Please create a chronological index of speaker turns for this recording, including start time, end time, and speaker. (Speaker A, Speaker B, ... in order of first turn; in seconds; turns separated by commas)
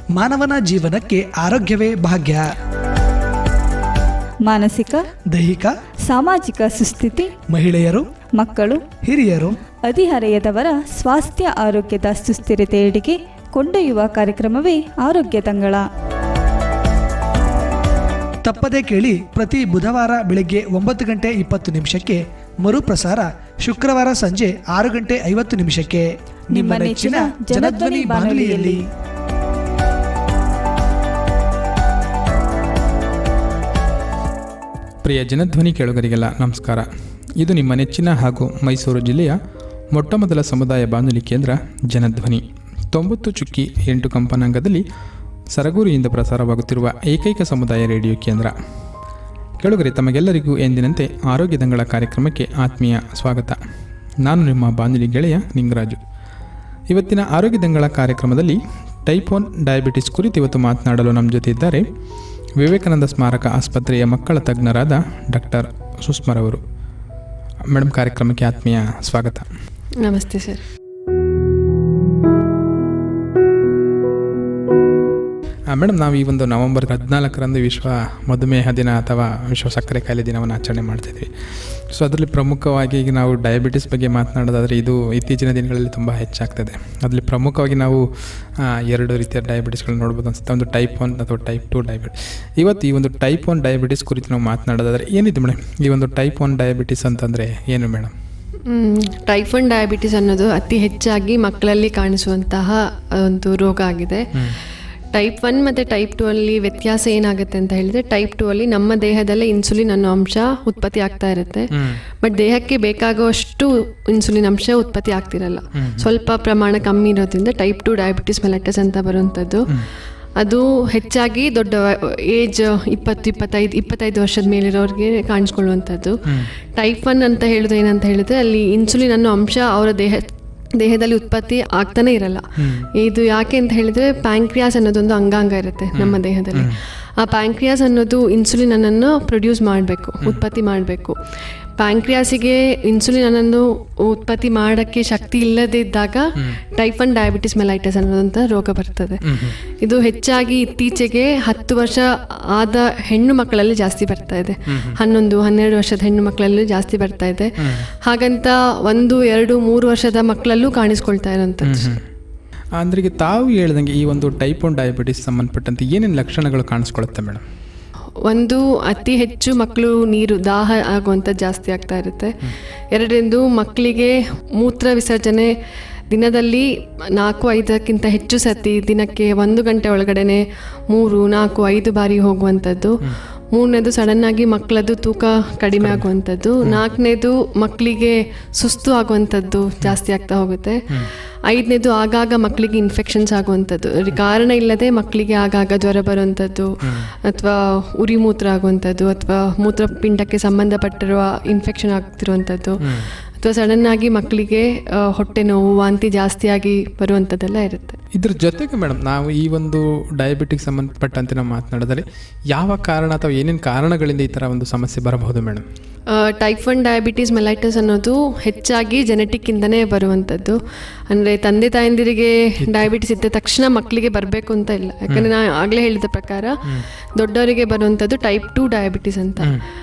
Speaker A: 0.1-2.5, Speaker B: 4.4-5.1, Speaker A: 5.3-5.7, Speaker B: 6.0-7.3, Speaker A: 7.5-8.1, Speaker B: 8.4-8.8, Speaker A: 9.0-9.6, Speaker B: 9.8-15.8, Speaker A: 18.4-28.8, Speaker B: 26.5-28.8, Speaker C: 35.0-36.9, Speaker C: 37.4-39.4, Speaker C: 39.9-44.8, Speaker C: 45.5-48.5, Speaker C: 49.6-53.6, Speaker C: 54.2-56.0, Speaker C: 56.9-61.8, Speaker C: 62.6-66.6, Speaker C: 67.7-69.5, Speaker D: 70.0-70.6, Speaker C: 75.7-88.0, Speaker C: 88.8-98.1, Speaker D: 98.7-104.3, Speaker D: 105.1-111.7, Speaker D: 112.2-119.7, Speaker C: 115.8-116.0, Speaker D: 120.4-126.2, Speaker D: 126.7-141.2, Speaker C: 132.6-132.9, Speaker C: 135.9-136.8, Speaker D: 141.8-149.2, Speaker C: 149.2-149.6, Speaker D: 149.8-157.5, Speaker C: 154.7-155.0, Speaker D: 158.0-161.9, Speaker C: 161.6-162.0, Speaker C: 162.8-167.4, Speaker D: 168.2-172.3, Speaker D: 172.9-175.5, Speaker D: 176.1-183.0, Speaker D: 183.5-190.8, Speaker C: 185.8-186.1, Speaker D: 191.5-196.7, Speaker C: 196.8-197.1, Speaker D: 197.2-202.8, Speaker D: 203.4-208.0, Speaker C: 208.1-215.6, Speaker D: 216.1-226.5, Speaker D: 227.2-229.5